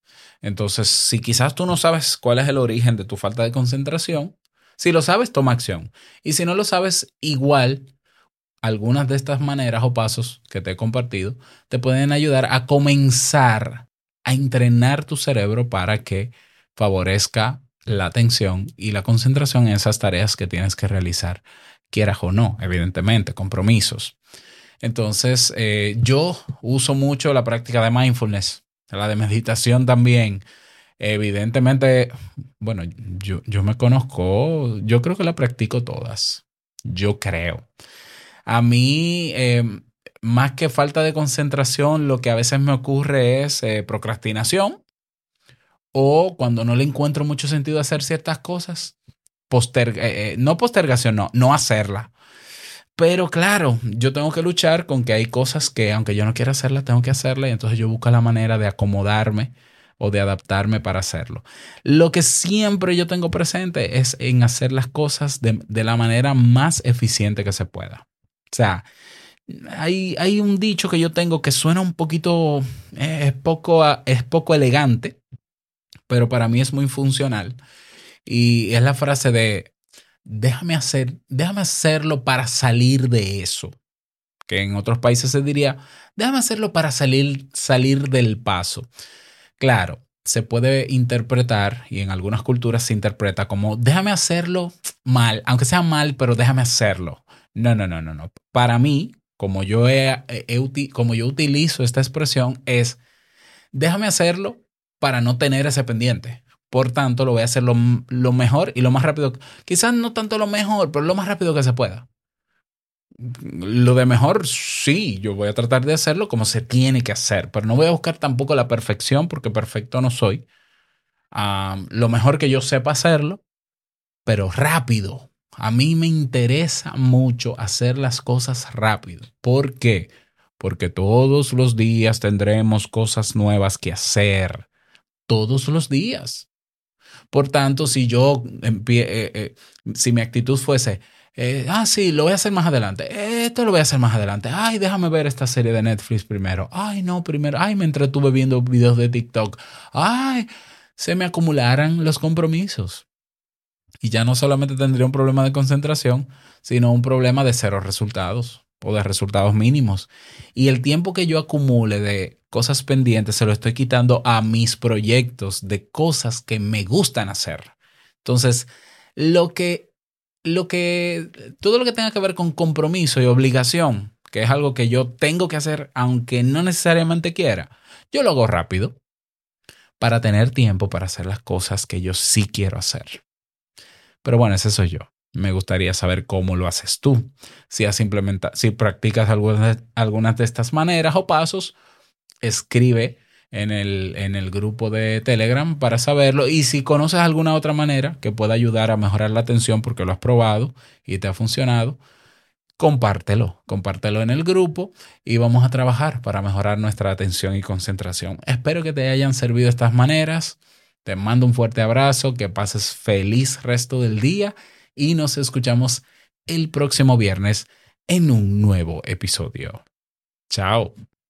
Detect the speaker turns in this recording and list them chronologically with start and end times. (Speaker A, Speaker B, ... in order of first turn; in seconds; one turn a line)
Speaker A: 0.4-7.9
Speaker A: 8.6-24.2
Speaker A: 24.8-30.4
Speaker A: 31.0-37.7
Speaker A: 38.5-44.8
Speaker A: 45.9-49.0
Speaker A: 49.5-52.1
Speaker A: 53.0-68.9
Speaker A: 69.5-75.2
Speaker A: 76.1-77.6
Speaker A: 78.2-79.7
Speaker A: 80.2-83.8
Speaker A: 84.5-88.9
Speaker A: 89.6-103.0
Speaker A: 103.7-112.1
Speaker A: 113.2-120.5
Speaker A: 121.3-123.4
Speaker A: 124.2-134.7
Speaker A: 135.3-136.5
Speaker A: 137.3-153.1
Speaker A: 154.0-169.9
Speaker A: 170.4-179.0
Speaker A: 180.0-183.2
Speaker A: 184.2-191.7
Speaker A: 192.4-202.0
Speaker A: 202.8-219.8
Speaker A: 220.5-220.9